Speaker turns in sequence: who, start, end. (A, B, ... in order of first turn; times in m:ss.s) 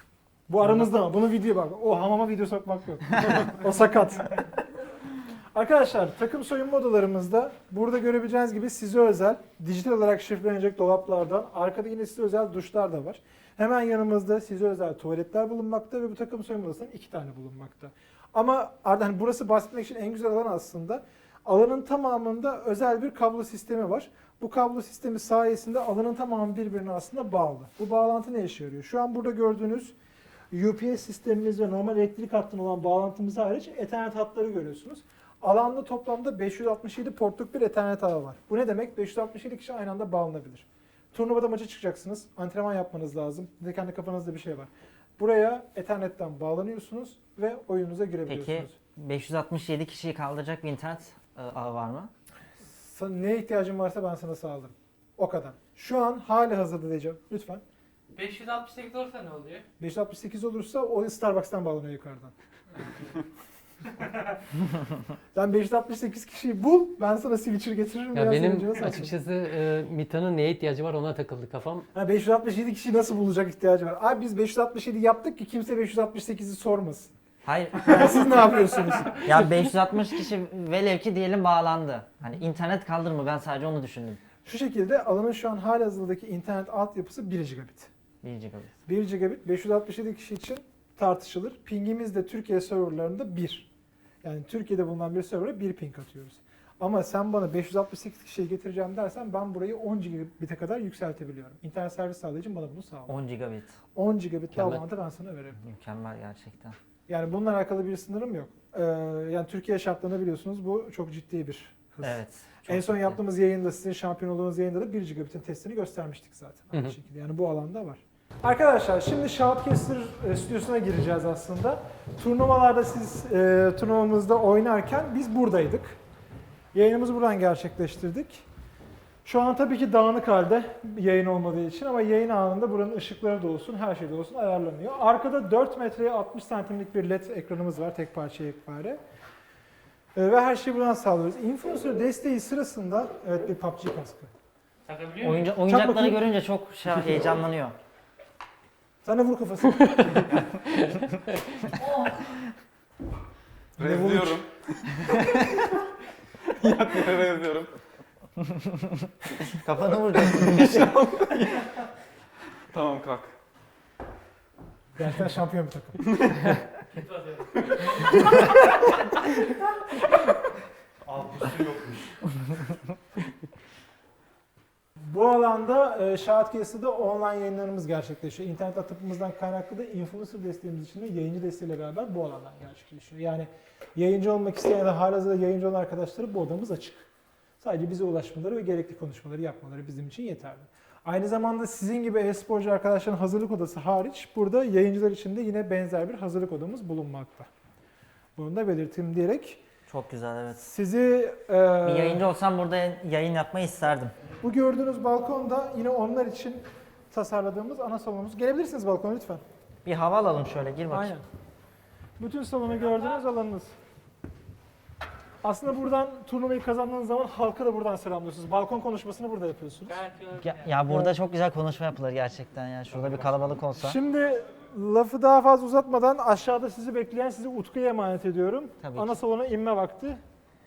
0:00.5-0:04.5 A
0:05.5-0:29.9 A
0:30.5-0:48.8 A
0:48.3-0:52.1 B
0:52.6-0:57.6 A
0:58.1-0:59.6 C
0:59.8-1:02.3 A
1:05.3-1:09.1 A
1:08.1-1:11.9 D
1:11.9-1:17.1 A
1:17.4-1:18.4 B
1:17.8-1:19.4 A
1:19.2-1:24.2 B
1:24.4-1:27.9 A
1:28.2-1:28.8 B
1:28.9-1:33.7 A
1:34.2-1:43.2 A
1:43.1-1:43.8 B
1:44.0-1:45.6 A
1:44.5-1:44.9 B
1:45.6-1:46.8 B
1:47.1-2:06.0 A
1:52.0-1:53.2 B
2:06.7-2:08.4 A
2:09.2-2:19.0 A
2:20.2-2:24.3 A
2:24.9-2:25.4 C
2:25.2-2:27.8 B
2:25.7-2:26.2 A
2:29.0-2:30.4 A
2:31.8-2:32.4 B
2:33.8-2:35.2 E
2:33.8-2:34.4 A
2:36.5-2:37.7 E
2:38.6-2:41.7 B
2:42.7-2:43.3 E
2:45.0-2:46.0 A
2:47.0-2:48.1 C
2:51.1-2:52.2 E
2:55.0-3:07.1 A
3:07.6-3:17.5 A
3:18.4-3:19.6 A
3:19.9-3:20.7 B
3:20.6-3:22.2 A
3:21.8-3:24.1 B
3:24.4-3:29.4 A
3:29.8-3:31.1 B
3:30.9-3:31.2 A
3:32.2-3:33.7 A
3:35.4-3:40.0 A
3:39.9-3:40.6 C
3:40.4-3:44.0 B
3:43.8-3:50.2 A
3:48.8-3:49.2 B